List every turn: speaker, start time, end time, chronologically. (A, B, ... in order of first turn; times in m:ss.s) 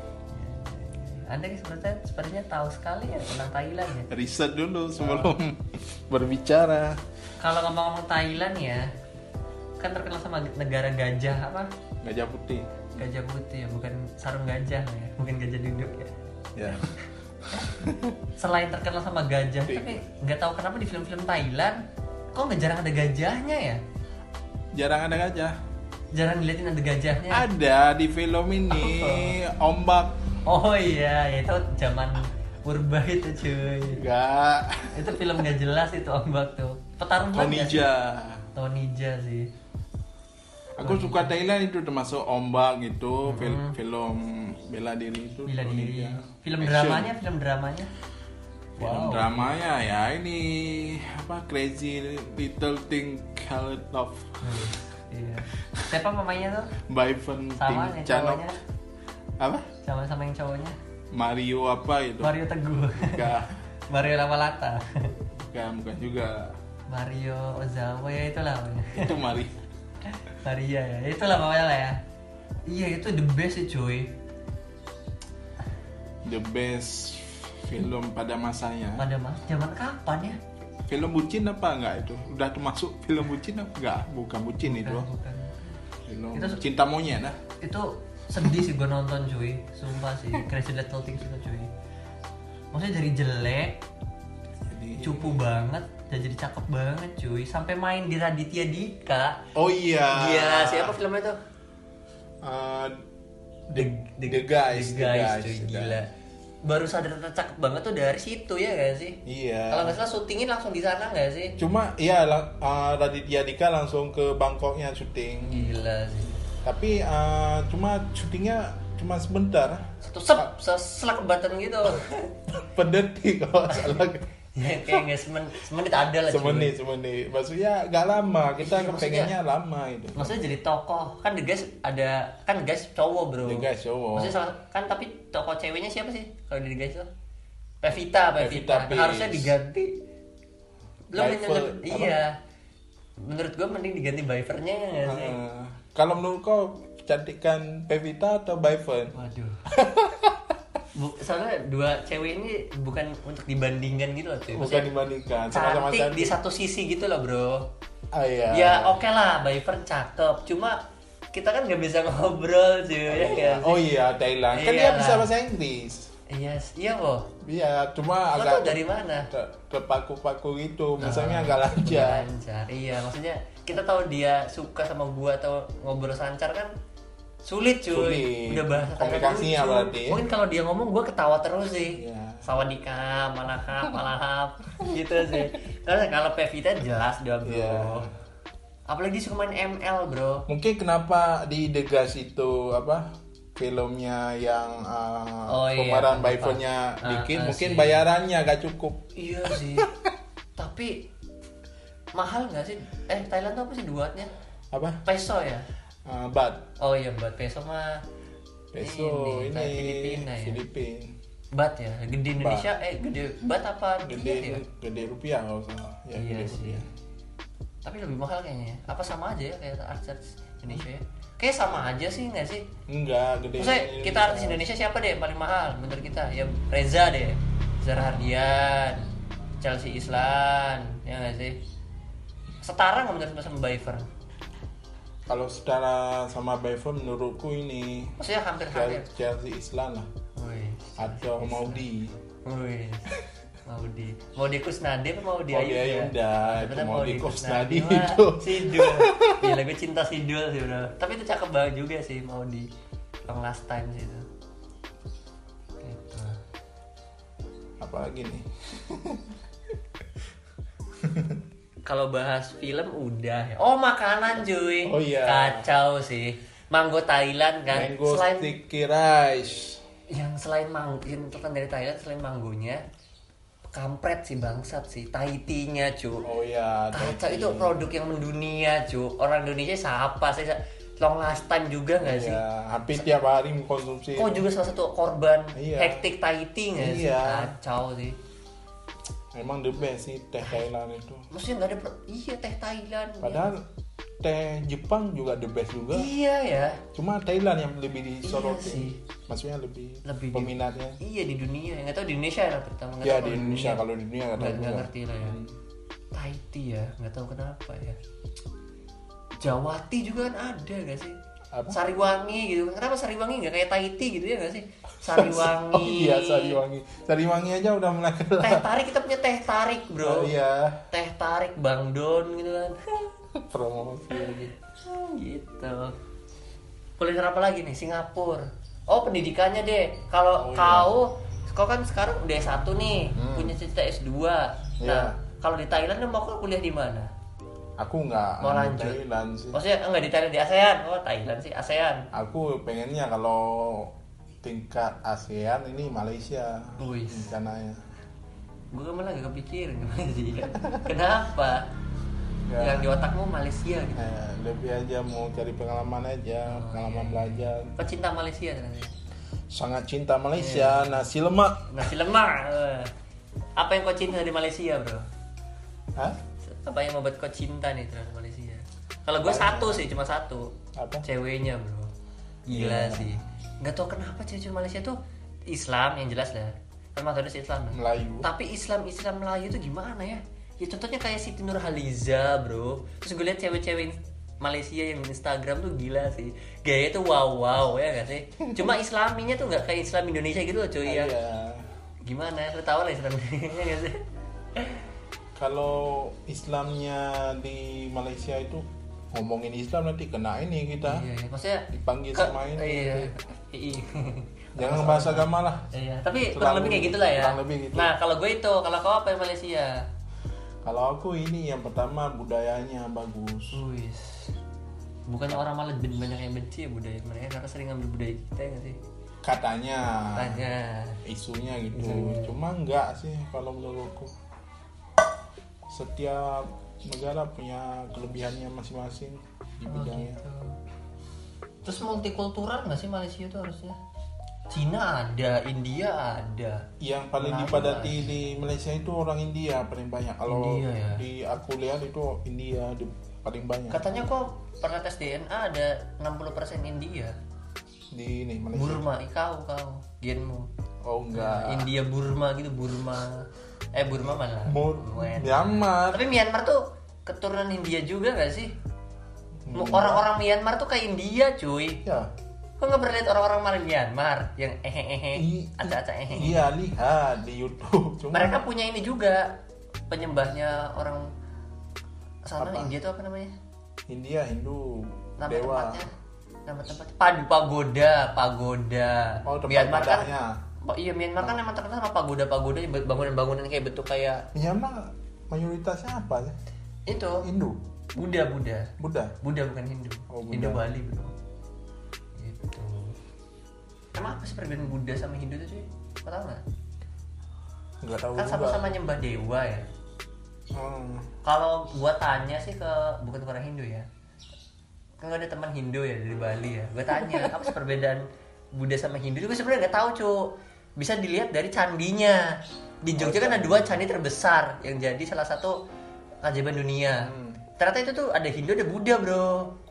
0:00.3-0:04.1 A
0:04.1-0:07.0 B
0:05.0-0:05.3 A
0:07.4-0:08.9 A
0:09.8-0:11.7 A
0:12.0-0:12.7 B
0:13.0-0:16.1 A
0:16.6-0:16.9 B
0:17.4-0:18.2 B
0:18.4-0:21.8 A
0:19.7-0:20.0 B
0:22.3-0:23.8 A
0:24.7-0:25.6 B
0:26.1-0:27.5 A
0:27.3-0:30.2 B
0:28.7-0:29.4 A
0:30.5-0:34.0 A
0:33.9-0:35.2 B
0:34.9-0:37.9 A
0:37.3-0:38.4 B
0:38.6-0:39.5 A
0:40.8-0:47.1 B
0:40.8-0:41.3 A
0:43.3-0:43.8 A
0:45.5-0:47.9 A
0:48.8-0:49.5 A
0:48.8-0:54.7 B
0:54.4-0:56.8 A
0:56.8-0:58.5 B
0:57.6-0:58.6 A
0:59.4-0:59.7 B
0:59.8-1:00.8 A
1:01.1-1:02.4 B
1:02.2-1:03.3 A
1:03.0-1:03.6 B
1:03.9-1:05.2 A
1:05.4-1:06.6 B
1:06.9-1:09.3 A
1:08.9-1:09.6 B
1:10.0-1:12.0 A
1:12.7-1:14.2 A
1:16.2-1:19.1 B
1:19.0-1:20.4 A
1:20.9-1:25.1 B
1:24.6-1:25.8 A
1:26.1-1:27.4 B
1:26.3-1:26.6 A
1:27.6-1:31.7 A
1:32.7-1:33.8 A
1:34.7-1:35.5 B
1:35.0-1:39.4 A
1:39.6-1:41.0 B
1:40.1-1:41.4 A
1:42.4-1:43.0 B
1:43.7-1:46.0 B
1:43.7-1:46.1 A
1:46.6-1:51.6 A
1:49.2-1:50.0 B
1:51.6-1:55.8 B
1:55.5-1:56.4 A
1:56.6-2:00.5 B
2:00.0-2:02.4 A
2:02.5-2:05.1 B
2:03.7-2:04.0 A
2:04.6-2:06.7 A
2:06.2-2:10.4 B
2:08.6-2:09.3 A
2:10.2-2:17.1 A
2:13.4-2:14.4 B
2:17.8-2:20.0 A
2:18.4-2:19.5 B
2:21.1-2:22.4 A
2:21.2-2:22.2 B
2:23.2-2:25.4 A
2:25.0-2:29.2 B
2:29.1-2:29.6 A
2:29.7-2:30.6 B
2:31.0-2:34.9 A
2:34.5-2:36.4 B
2:35.5-2:37.7 A
2:38.1-2:39.0 B
2:38.5-2:43.8 A
2:43.1-2:46.1 B
2:44.5-2:45.3 A
2:46.3-2:47.3 A
2:47.4-2:52.3 B
2:48.4-2:49.3 A
2:51.0-2:56.7 A
2:57.4-3:08.1 A
2:57.9-3:00.2 B
3:01.9-3:02.5 B
3:04.8-3:05.4 B
3:07.4-3:08.1 B
3:08.9-3:10.5 A
3:10.5-3:20.1 B
3:15.5-3:18.0 A
3:19.2-3:19.9 A
3:20.6-3:21.1 A
3:22.2-3:24.3 A
3:24.7-3:25.0 B
3:25.0-3:25.7 A
3:26.1-3:26.7 B
3:26.8-3:28.0 A
3:28.7-3:31.2 B
3:28.8-3:30.6 A
3:31.5-3:34.6 A
3:32.4-3:32.7 B
3:34.0-3:36.9 B
3:36.2-3:36.8 A
3:37.8-3:42.7 A
3:42.9-3:44.6 B
3:43.6-3:49.1 A
3:49.6-3:51.6 A
3:52.6-3:54.1 A
3:55.3-3:58.2 B
3:58.2-3:59.1 A
3:58.7-4:00.1 B
4:00.4-4:01.8 A
4:01.0-4:02.2 B
4:02.4-4:03.1 A
4:03.6-4:12.7 A
4:05.5-4:09.6 B
4:13.2-4:14.3 A
4:15.8-4:16.4 A
4:17.8-4:19.4 B
4:21.0-4:21.4 B
4:21.8-4:28.6 A
4:24.8-4:25.7 B
4:27.7-4:29.8 B
4:30.1-4:32.8 A
4:33.7-4:36.2 A
4:36.2-4:37.8 B
4:36.9-4:42.4 A
4:42.0-4:44.4 B
4:44.2-4:48.2 A
4:45.6-4:46.1 B
4:46.8-4:47.5 B
4:49.3-4:51.3 B
4:51.3-4:53.5 A
4:53.2-4:53.7 B
4:54.2-4:56.1 B
4:55.9-4:56.8 A
4:56.9-5:01.0 B
4:58.2-4:59.0 A
5:00.0-5:03.8 A
5:03.0-5:05.5 B
5:04.4-5:05.4 A
5:06.1-5:08.0 A
5:09.4-5:11.2 A
5:11.5-5:11.8 B
5:11.7-5:16.6 A
5:15.0-5:18.7 B
5:18.4-5:20.3 A
5:20.0-5:20.8 B
5:20.9-5:23.1 A
5:23.4-5:24.5 B
5:24.1-5:25.9 A
5:27.0-5:37.1 A
5:30.4-5:30.9 B
5:33.2-5:33.6 B
5:34.8-5:35.1 B
5:37.8-5:39.6 B
5:38.4-5:39.0 A
5:39.5-5:42.1 A
5:42.1-5:47.8 B
5:46.8-5:47.3 A
5:48.7-5:51.7 A
5:52.5-5:52.9 B
5:52.6-5:54.0 A
5:54.0-5:57.7 B
5:56.5-5:58.9 A
5:59.5-6:01.7 B
6:00.4-6:01.1 A
6:01.7-6:02.9 A
6:03.6-6:05.1 A
6:06.4-6:10.5 A
6:09.2-6:09.9 B
6:10.8-6:11.1 B
6:11.0-6:11.9 A
6:12.5-6:31.1 A
6:12.5-6:13.2 B
6:17.7-6:18.3 B
6:28.4-6:28.7 B
6:30.8-6:31.7 B
6:32.0-6:34.0 A
6:34.6-6:34.9 A
6:35.4-6:41.1 B
6:40.8-6:49.9 A
6:41.7-6:43.1 B
6:44.6-6:45.7 B
6:46.3-6:47.9 B
6:50.6-6:53.6 B
6:53.5-6:54.3 A
6:55.1-6:58.8 A
6:59.2-7:00.4 B
7:00.2-7:01.0 A
7:01.0-7:04.1 B
7:01.7-7:02.4 A
7:05.7-7:10.2 B
7:09.7-7:10.6 A
7:11.6-7:13.8 A
7:14.5-7:16.7 A
7:16.8-7:23.8 B
7:17.2-7:18.1 A
7:20.3-7:21.0 A
7:23.7-7:27.2 A
7:27.9-7:28.8 B
7:28.5-7:30.5 A
7:30.8-7:31.7 B
7:31.1-7:38.6 A
7:34.0-7:36.0 B
7:39.4-7:40.1 B
7:39.5-7:41.8 A
7:41.8-7:42.1 B
7:42.6-7:46.5 A
7:45.2-7:48.5 B
7:48.1-7:49.4 A
7:49.9-7:51.1 A
7:52.3-7:53.3 A
7:52.4-7:52.7 B
7:53.9-7:55.8 B
7:55.2-7:55.9 A
7:56.5-8:00.1 A
7:59.3-8:00.4 B
8:00.6-8:04.3 A
8:04.3-8:06.4 B
8:06.9-8:07.3 A
8:07.2-8:07.6 B
8:08.0-8:11.1 A
8:08.8-8:09.2 B
8:10.1-8:10.6 B
8:12.2-8:13.0 A
8:14.0-8:16.4 A
8:17.8-8:18.8 B
8:18.2-8:19.7 A
8:20.5-8:21.1 B
8:21.2-8:23.9 A
8:25.0-8:35.6 A
8:27.0-8:27.4 B
8:33.0-8:33.7 B
8:36.2-8:39.6 A
8:36.9-8:37.4 B